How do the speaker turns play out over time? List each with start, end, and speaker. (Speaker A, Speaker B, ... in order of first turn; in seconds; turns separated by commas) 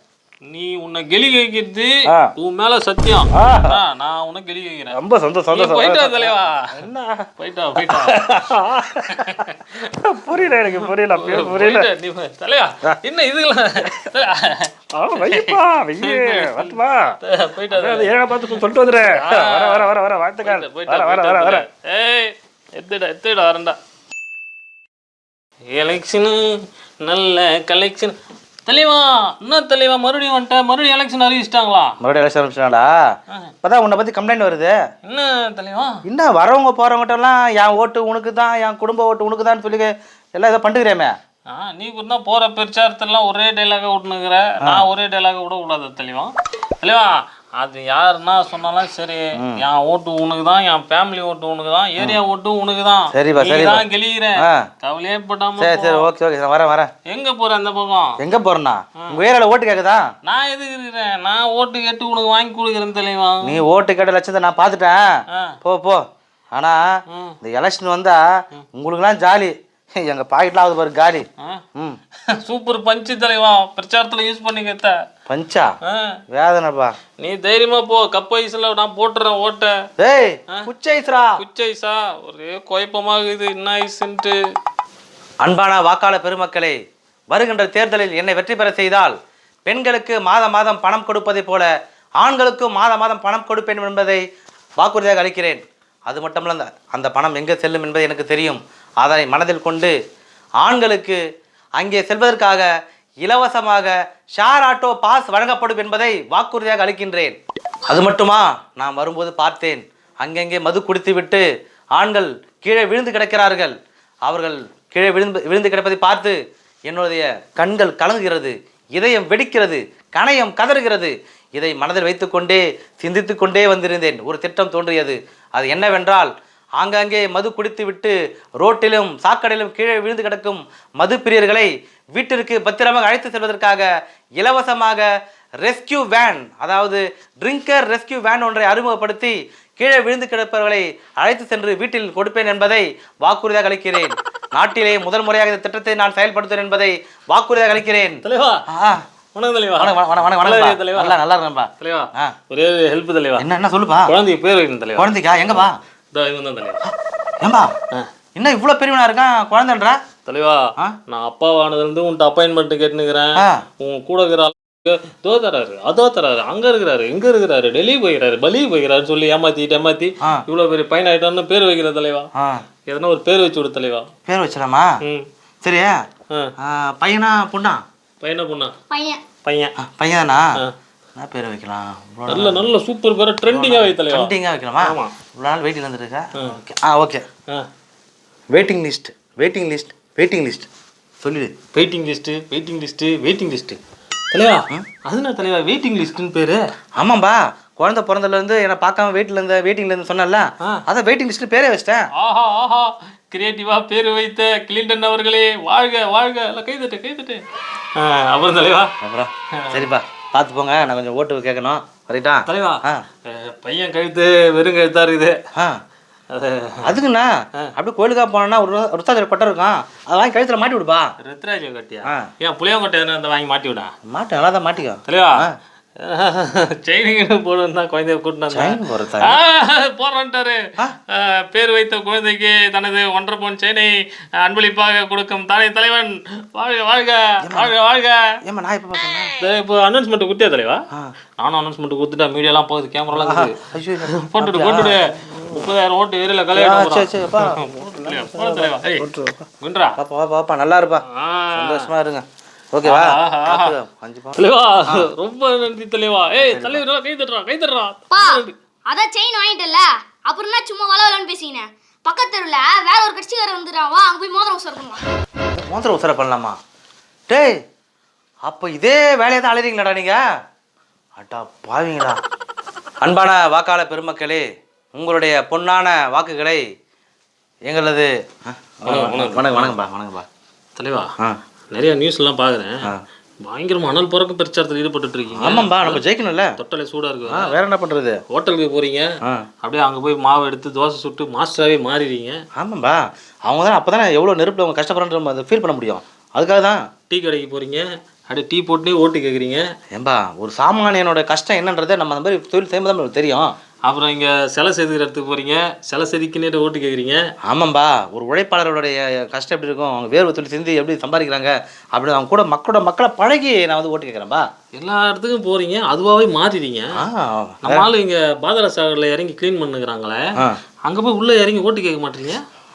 Speaker A: 0.5-5.0, Speaker B: 3.3-3.8, Speaker B: 4.9-7.3, Speaker A: 5.5-6.9, Speaker A: 7.4-8.3, Speaker B: 7.9-9.2, Speaker A: 8.8-23.8, Speaker B: 9.9-11.9, Speaker B: 14.9-17.1, Speaker B: 17.7-21.6, Speaker A: 25.7-28.1, Speaker A: 28.6-31.9, Speaker C: 32.0-32.9, Speaker C: 33.6-34.7, Speaker A: 35.0-36.0, Speaker C: 36.0-41.1, Speaker A: 41.5-56.1, Speaker C: 53.1-53.8, Speaker C: 55.6-56.9, Speaker A: 57.1-58.2, Speaker C: 58.2-60.0, Speaker A: 60.2-63.6, Speaker C: 63.4-65.0, Speaker A: 65.3-65.6, Speaker C: 65.6-66.8, Speaker A: 67.1-67.3, Speaker C: 67.4-68.2, Speaker C: 68.7-71.2, Speaker A: 72.3-75.0, Speaker C: 75.3-75.7, Speaker A: 75.8-76.2, Speaker C: 76.3-76.9, Speaker A: 77.2-79.8, Speaker C: 80.0-81.3, Speaker A: 81.4-84.3, Speaker C: 85.4-86.7, Speaker C: 87.3-89.1, Speaker C: 89.7-91.7, Speaker C: 92.2-94.2, Speaker C: 94.8-99.9, Speaker C: 100.6-101.2, Speaker C: 101.8-102.7, Speaker C: 103.2-113.7, Speaker C: 114.2-116.3, Speaker C: 116.9-133.9, Speaker C: 134.4-135.1, Speaker C: 135.6-149.0, Speaker A: 148.2-148.6, Speaker A: 149.3-151.2, Speaker C: 149.8-152.3, Speaker A: 151.8-153.5, Speaker C: 153.4-154.1, Speaker A: 154.1-156.8, Speaker C: 154.9-155.8, Speaker C: 157.4-157.7, Speaker C: 158.3-160.0, Speaker A: 160.2-172.3, Speaker C: 163.4-163.6, Speaker C: 172.3-172.6, Speaker A: 172.9-174.1, Speaker C: 174.3-174.9, Speaker C: 175.6-175.9, Speaker C: 176.6-177.8, Speaker A: 178.2-178.7, Speaker D: 178.9-179.2, Speaker A: 179.4-179.7, Speaker C: 179.8-180.4, Speaker C: 181.2-182.7, Speaker A: 182.3-185.1, Speaker C: 183.5-187.2, Speaker A: 186.3-186.6, Speaker C: 188.5-190.7, Speaker C: 191.2-191.5, Speaker A: 191.7-193.8, Speaker A: 194.3-196.6, Speaker C: 197.0-202.1, Speaker A: 202.2-207.4, Speaker A: 207.9-208.9, Speaker C: 209.0-213.0, Speaker A: 209.6-209.9, Speaker A: 212.4-215.4, Speaker A: 216.3-217.0, Speaker C: 216.8-221.1, Speaker A: 221.2-223.9, Speaker C: 224.1-225.5, Speaker A: 225.1-225.4, Speaker A: 226.0-238.3, Speaker C: 228.5-229.4, Speaker C: 237.4-237.7, Speaker C: 238.4-239.3, Speaker A: 239.3-240.8, Speaker A: 241.4-249.0, Speaker C: 243.1-245.0, Speaker C: 246.5-247.6, Speaker B: 247.8-249.4, Speaker A: 249.6-250.0, Speaker C: 250.0-255.0, Speaker A: 251.1-251.9, Speaker A: 252.8-253.8, Speaker A: 254.3-258.5, Speaker C: 256.4-256.8, Speaker D: 258.1-265.0, Speaker C: 265.5-266.6, Speaker C: 267.3-267.5, Speaker C: 268.4-270.2, Speaker C: 271.2-272.2, Speaker C: 273.0-274.4, Speaker C: 274.9-276.6, Speaker C: 277.7-280.2, Speaker A: 278.9-279.7, Speaker A: 280.8-281.1, Speaker A: 281.7-282.8, Speaker A: 283.4-286.0, Speaker C: 285.3-286.5, Speaker A: 286.6-287.6, Speaker C: 287.3-288.2, Speaker A: 288.3-289.1, Speaker A: 289.6-292.4, Speaker C: 292.6-296.8, Speaker A: 297.1-299.6, Speaker C: 299.9-303.5, Speaker A: 303.9-307.2, Speaker C: 307.5-314.4, Speaker A: 314.7-316.9, Speaker C: 317.0-317.9, Speaker A: 317.6-320.2, Speaker A: 320.9-322.4